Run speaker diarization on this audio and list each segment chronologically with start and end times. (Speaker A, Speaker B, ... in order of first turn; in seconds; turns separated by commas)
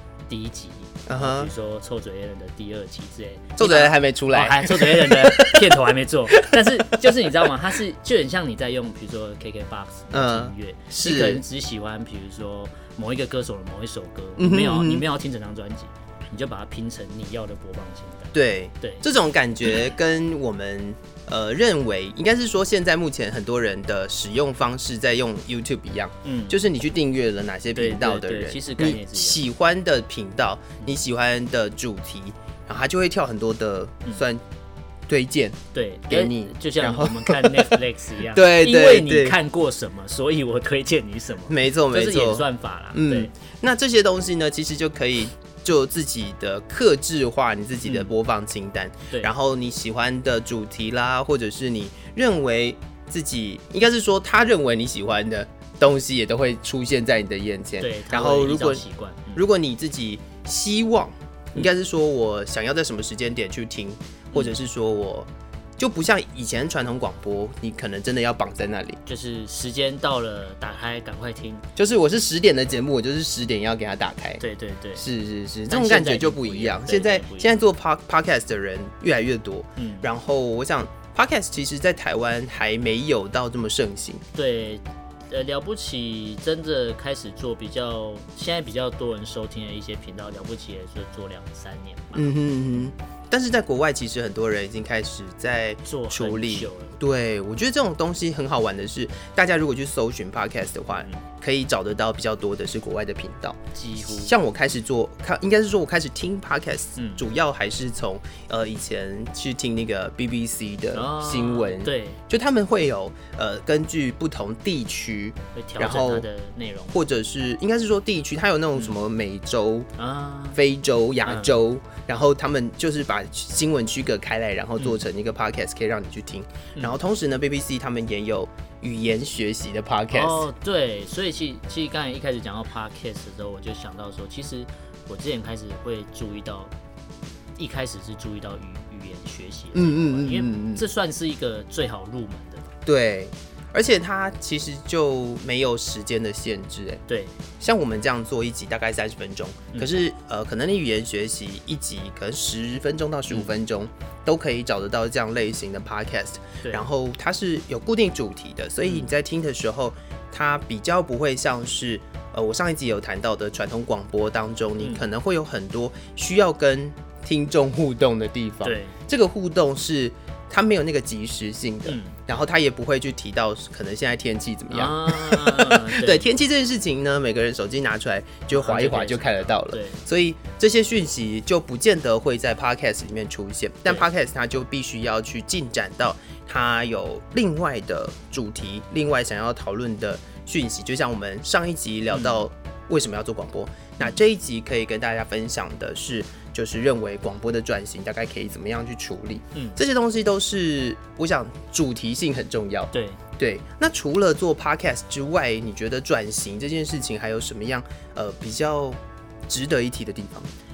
Speaker A: 0.3-19.0, Speaker B: 1.1-1.5, Speaker B: 3.6-5.8, Speaker B: 6.3-7.1, Speaker B: 10.1-11.4, Speaker B: 14.4-15.0, Speaker B: 18.3-34.4, Speaker A: 26.2-26.6, Speaker A: 27.7-29.4, Speaker B: 35.1-37.8, Speaker A: 35.7-43.3, Speaker B: 38.3-39.4, Speaker B: 41.5-58.8, Speaker A: 57.8-59.4, Speaker B: 59.3-69.0, Speaker A: 69.0-71.7, Speaker B: 71.8-74.4, Speaker A: 74.4-75.0, Speaker B: 75.0-84.2, Speaker A: 75.7-77.5, Speaker A: 79.8-80.1, Speaker A: 84.3-92.3, Speaker B: 92.1-116.2, Speaker A: 95.8-97.0, Speaker A: 103.7-104.3, Speaker A: 107.0-107.2, Speaker A: 110.9-112.2, Speaker A: 115.5-117.0, Speaker B: 116.9-119.9, Speaker A: 120.0-120.6, Speaker B: 120.5-130.5, Speaker A: 121.2-121.6, Speaker A: 130.1-136.7, Speaker A: 137.6-142.7, Speaker B: 139.7-140.8, Speaker B: 142.8-147.0, Speaker A: 147.1-147.3, Speaker B: 147.6-210.5, Speaker A: 149.7-150.0, Speaker A: 156.6-156.9, Speaker A: 158.8-159.1, Speaker A: 164.8-165.0, Speaker A: 168.6-168.9, Speaker A: 171.8-172.2, Speaker A: 174.7-176.3, Speaker A: 178.5-180.0, Speaker A: 192.1-192.4, Speaker A: 199.5-199.8, Speaker A: 202.9-203.2